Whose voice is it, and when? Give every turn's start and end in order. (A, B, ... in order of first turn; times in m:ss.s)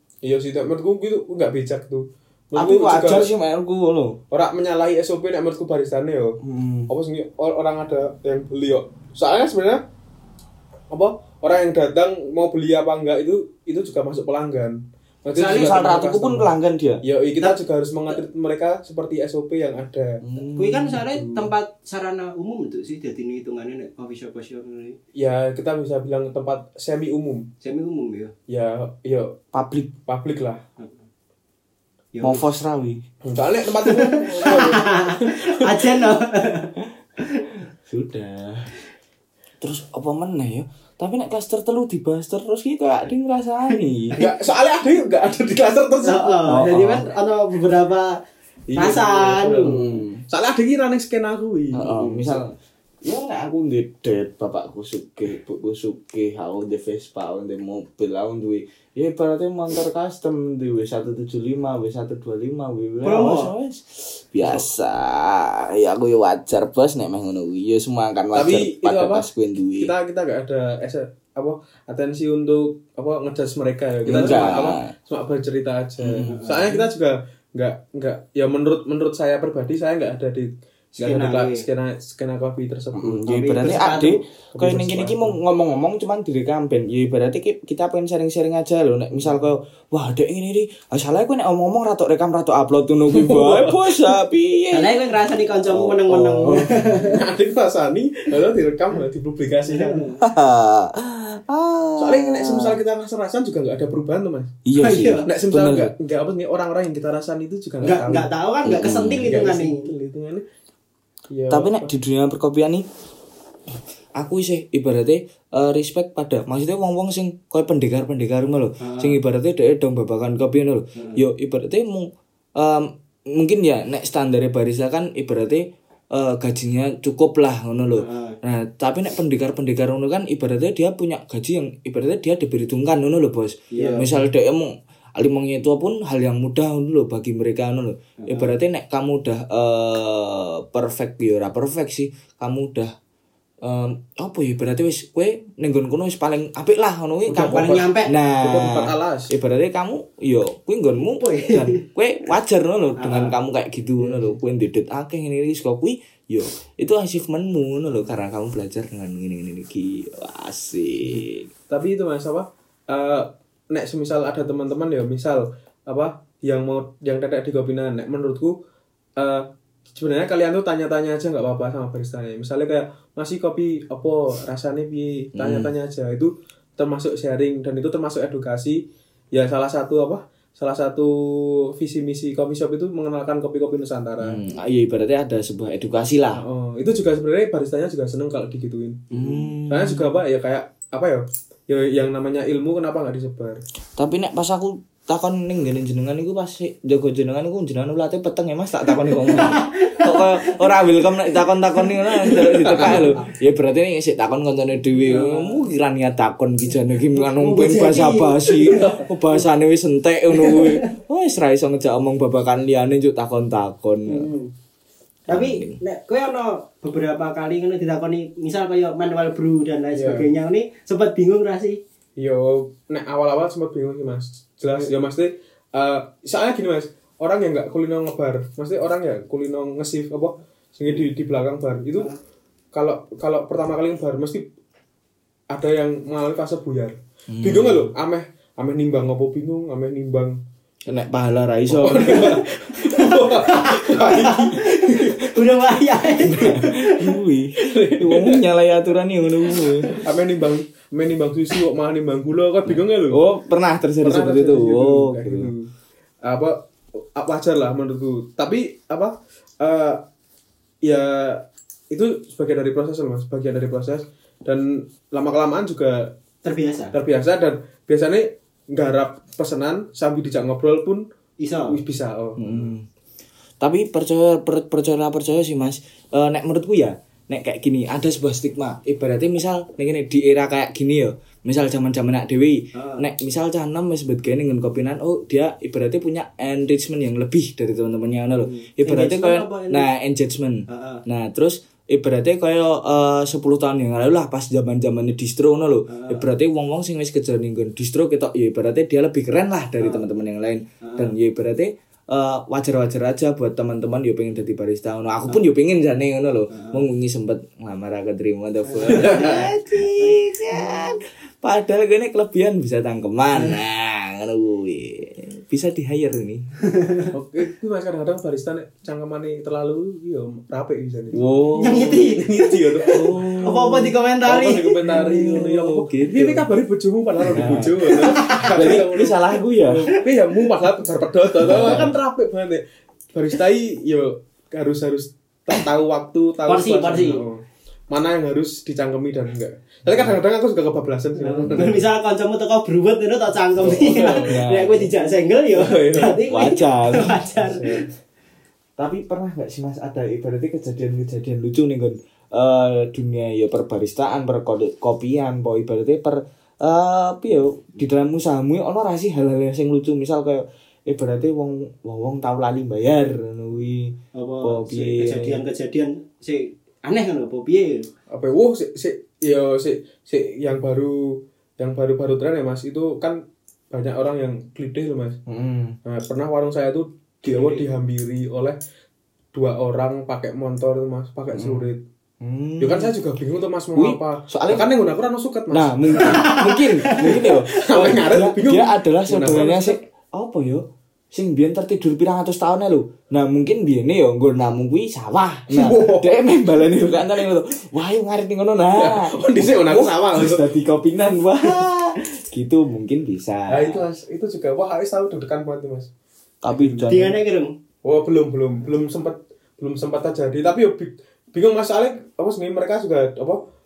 0:00.2-0:03.3 A
0:02.5-0:04.2 B
0:04.3-0:06.4 A
0:06.4-0:06.9 B
0:06.9-0:09.8 A
0:10.9-0:16.5 A
0:15.3-0:15.9 C
0:15.4-0:17.0 B
0:17.0-0:20.2 A
0:20.2-0:21.0 B
0:20.6-0:25.0 C
0:21.0-0:21.5 A
0:25.1-0:27.5 A
0:27.6-0:28.3 C
0:28.5-0:29.4 A
0:29.5-0:29.9 B
0:30.0-0:30.6 A
0:30.8-0:31.0 C
0:32.1-0:32.4 C
0:32.2-0:33.0 B
0:33.2-0:36.0 A
0:33.8-0:37.4 C
0:37.8-0:38.7 B
0:39.6-0:44.2 B
0:44.2-0:46.9 A
0:46.0-0:48.2 C
0:46.5-0:47.0 B
0:48.7-0:52.4 A
0:48.7-0:49.8 C
0:49.7-0:50.2 B
0:51.7-1:09.9 B
1:03.0-1:03.5 C
1:08.3-1:23.3 A
1:14.0-1:14.9 B
1:14.1-1:14.4 C
1:16.0-1:16.4 B
1:16.3-1:16.8 C
1:21.0-1:21.6 C
1:22.9-1:35.0 B
1:23.3-1:24.2 C
1:24.5-1:25.4 A
1:29.1-1:29.4 A
1:33.1-1:34.1 A
1:34.7-1:37.2 C
1:35.6-1:36.9 B
1:36.4-1:40.1 A
1:39.7-1:40.2 C
1:40.2-1:42.8 B
1:42.0-1:44.6 A
1:44.6-1:45.9 B
1:44.8-1:45.3 C
1:45.2-1:48.3 A
1:47.8-1:49.9 C
1:48.6-1:49.3 B
1:48.9-1:50.4 A
1:51.3-1:51.9 A
1:51.5-1:52.8 B
1:54.2-2:22.9 B
1:58.8-1:59.2 C
2:00.9-2:01.2 C
2:08.0-2:08.4 C
2:13.7-2:14.1 C
2:14.0-2:14.3 A
2:18.2-2:18.5 C
2:23.6-2:41.5 B
2:27.3-2:29.3 A
2:27.3-2:28.1 C
2:31.0-2:31.8 C
2:33.0-2:33.3 C
2:34.0-2:34.4 A
2:41.0-2:48.6 A
2:49.2-3:04.4 A
2:55.4-2:55.7 B
3:04.2-3:06.4 B
3:06.3-3:13.6 A
3:09.1-3:10.1 B
3:14.0-3:34.3 B
3:19.3-3:20.5 C
3:22.4-3:23.2 A
3:25.0-3:25.6 C
3:27.1-3:29.0 C
3:30.3-3:30.9 C
3:34.1-3:34.5 C
3:35.3-3:41.8 C
3:35.3-3:35.8 B
3:39.9-3:40.3 A
3:42.2-3:52.1 A
3:52.7-3:54.5 A
3:55.5-4:00.4 A
3:57.3-3:57.9 B
4:00.8-4:02.4 B
4:01.7-4:05.2 A
4:02.8-4:07.2 C
4:06.2-4:10.0 B
4:07.6-4:08.5 A
4:10.0-4:13.2 A
4:12.7-4:15.5 B
4:14.0-4:15.7 A
4:16.2-4:20.0 A
4:20.8-4:26.1 A
4:26.4-4:26.9 C
4:26.9-4:31.0 A
4:31.4-4:31.8 C
4:31.7-4:32.7 A
4:32.4-4:32.8 B
4:33.6-5:16.5 B
4:42.7-4:43.1 C
4:48.4-4:49.9 C
4:50.7-4:51.0 C
4:55.9-4:56.2 C
4:59.8-5:00.0 C
5:00.8-5:01.1 C
5:06.5-5:06.9 C
5:08.6-5:10.8 C
5:08.9-5:09.5 A
5:16.6-5:17.1 C
5:17.1-5:23.4 A
5:21.1-5:22.0 B
5:21.6-5:24.9 C
5:22.9-5:23.9 B
5:24.2-5:41.9 A
5:24.8-5:26.5 B
5:27.3-5:29.9 B
5:28.0-5:28.4 C
5:31.4-5:32.0 B
5:31.4-5:31.9 C
5:36.5-5:37.2 C
5:39.9-5:40.2 B
5:41.2-5:47.8 C
5:41.4-5:41.8 B
5:43.6-5:44.4 A
5:44.2-5:44.9 B
5:45.5-5:46.2 A
5:46.3-5:47.6 B
5:47.5-5:47.8 A
5:48.8-6:05.4 B
6:04.1-6:07.9 C
6:08.1-6:15.2 A
6:15.3-6:15.8 B
6:15.8-6:18.6 A
6:17.2-6:17.6 C
6:19.3-6:21.8 A
6:21.3-6:21.7 B
6:22.2-6:22.9 B
6:22.6-6:26.3 A
6:23.7-6:24.7 B
6:25.5-6:43.8 B
6:26.0-6:27.4 C
6:27.0-6:29.8 A
6:35.5-6:36.2 A
6:38.7-6:40.5 A
6:43.5-6:45.9 A
6:46.4-6:47.2 B
6:46.5-6:46.9 A
6:46.9-6:47.5 C
6:47.8-6:53.4 A